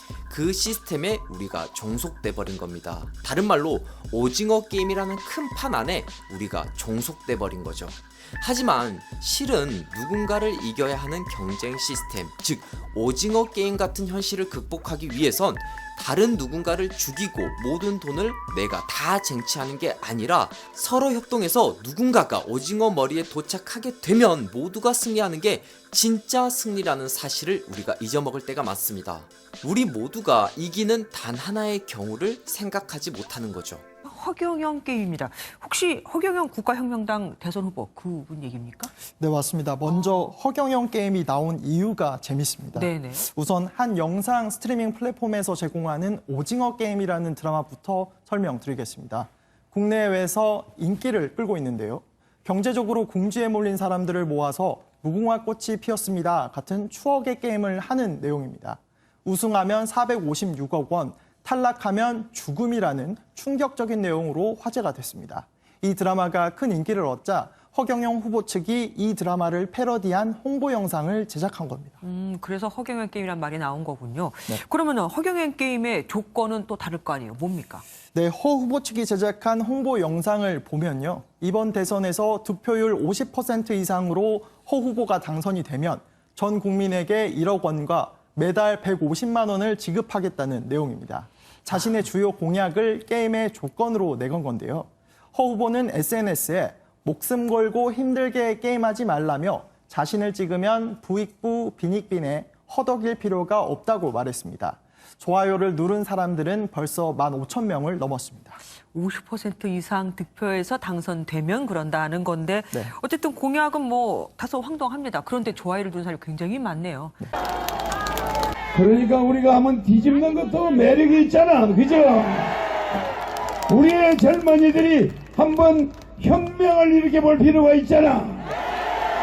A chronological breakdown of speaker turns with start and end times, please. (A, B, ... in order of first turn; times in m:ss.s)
0:00.3-0:33.8 A
0:34.0-0:38.9 B
0:39.2-1:12.0 C
0:42.7-0:43.2 B
1:12.0-1:17.8 B
1:18.1-1:48.6 C
1:48.9-1:57.2 B
1:58.7-2:02.5 D
2:03.7-2:08.5 D